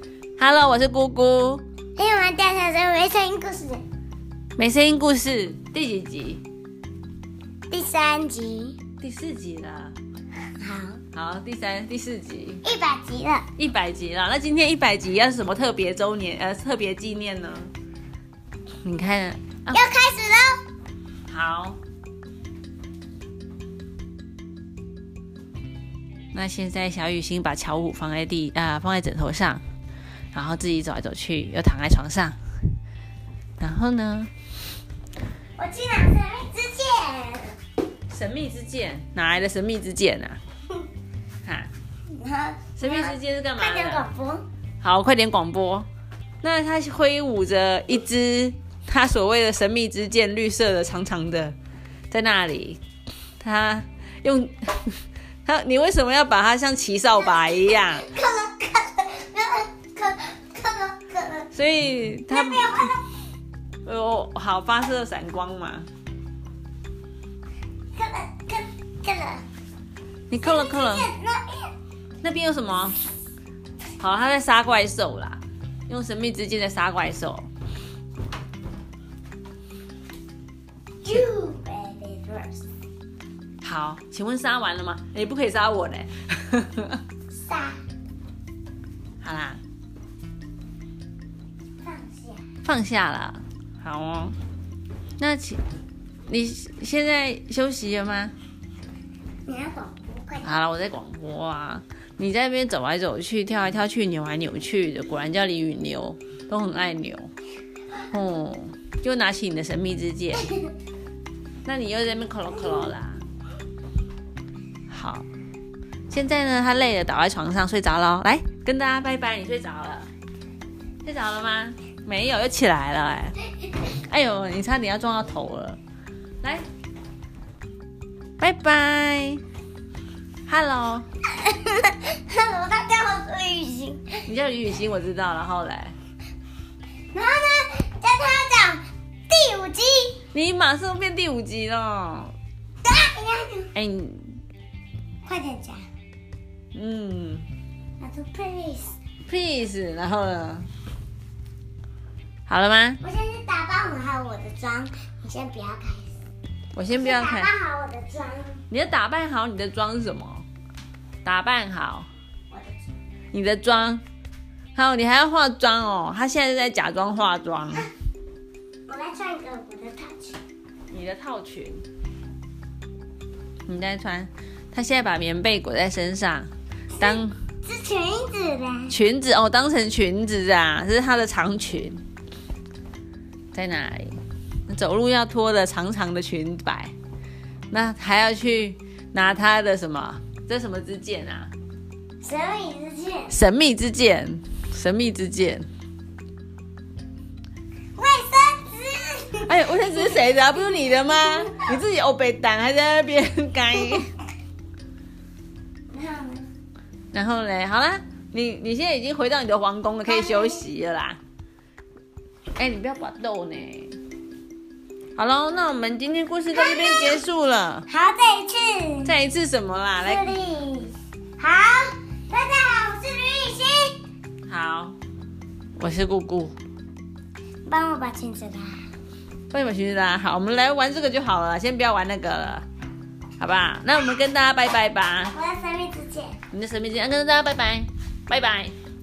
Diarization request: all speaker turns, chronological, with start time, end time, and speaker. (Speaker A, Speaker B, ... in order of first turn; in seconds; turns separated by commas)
Speaker A: 0.4-1.6, Speaker B: 2.0-3.8, Speaker A: 4.5-6.4, Speaker B: 7.7-8.8, Speaker A: 9.0-9.9, Speaker B: 10.6-11.0, Speaker A: 11.1-12.6, Speaker B: 12.6-13.5, Speaker A: 13.6-17.7, Speaker A: 18.8-19.8, Speaker B: 19.7-20.6, Speaker A: 21.3-21.8, Speaker A: 26.3-29.6, Speaker A: 30.3-32.4, Speaker A: 33.6-34.3, Speaker B: 35.6-37.5, Speaker A: 38.1-40.4, Speaker A: 41.4-41.7, Speaker B: 42.1-44.4, Speaker A: 42.8-44.0, Speaker A: 44.8-45.9, Speaker A: 46.4-51.5, Speaker A: 52.1-52.8, Speaker A: 53.4-58.1, Speaker B: 57.2-61.5, Speaker A: 61.5-62.9, Speaker B: 62.3-63.0, Speaker A: 63.8-65.9, Speaker B: 67.9-69.4, Speaker A: 70.3-71.1, Speaker B: 70.4-71.7, Speaker A: 72.2-73.0, Speaker A: 74.0-77.5, Speaker B: 81.0-82.7, Speaker A: 83.6-87.0, Speaker B: 87.4-87.8, Speaker A: 89.2-89.6, Speaker B: 91.8-92.4, Speaker A: 92.6-94.3, Speaker A: 95.2-95.6, Speaker A: 96.3-98.3, Speaker B: 99.5-100.5, Speaker A: 100.4-107.3, Speaker A: 108.1-110.5, Speaker A: 111.6-113.2, Speaker A: 114.9-115.2, Speaker A: 116.1-120.1, Speaker A: 121.0-125.8, Speaker A: 128.4-129.4, Speaker A: 130.5-131.1, Speaker B: 131.4-134.2, Speaker A: 134.2-135.9, Speaker B: 137.1-140.2, Speaker A: 140.3-142.3, Speaker B: 142.8-143.7, Speaker A: 143.7-144.4, Speaker B: 145.2-145.9, Speaker A: 146.7-147.5, Speaker B: 148.0-148.9, Speaker A: 149.2-150.7, Speaker A: 152.5-153.0, Speaker B: 153.0-156.2, Speaker A: 156.7-157.5, Speaker B: 156.9-158.6, Speaker A: 158.7-160.4, Speaker A: 161.2-162.1, Speaker B: 162.5-162.8, Speaker A: 163.3-164.0, Speaker A: 164.7-167.9, Speaker B: 168.9-170.4, Speaker A: 170.9-171.8, Speaker A: 173.7-177.3, Speaker B: 177.0-178.9, Speaker A: 178.9-182.0, Speaker A: 183.5-186.9, Speaker A: 187.7-191.5, Speaker B: 192.2-193.3, Speaker A: 193.3-195.7, Speaker B: 197.9-199.6, Speaker A: 199.4-204.1, Speaker B: 205.9-206.5, Speaker A: 207.1-211.2, Speaker B: 210.1-210.7, Speaker A: 212.6-214.0, Speaker A: 215.2-217.8, Speaker B: 216.5-217.2, Speaker B: 217.9-219.1, Speaker A: 219.0-220.3, Speaker B: 220.0-224.0, Speaker A: 224.5-225.0, Speaker A: 225.8-226.6, Speaker B: 227.6-228.8, Speaker A: 229.5-232.6, Speaker A: 233.4-235.3, Speaker B: 235.3-236.4, Speaker A: 236.5-238.7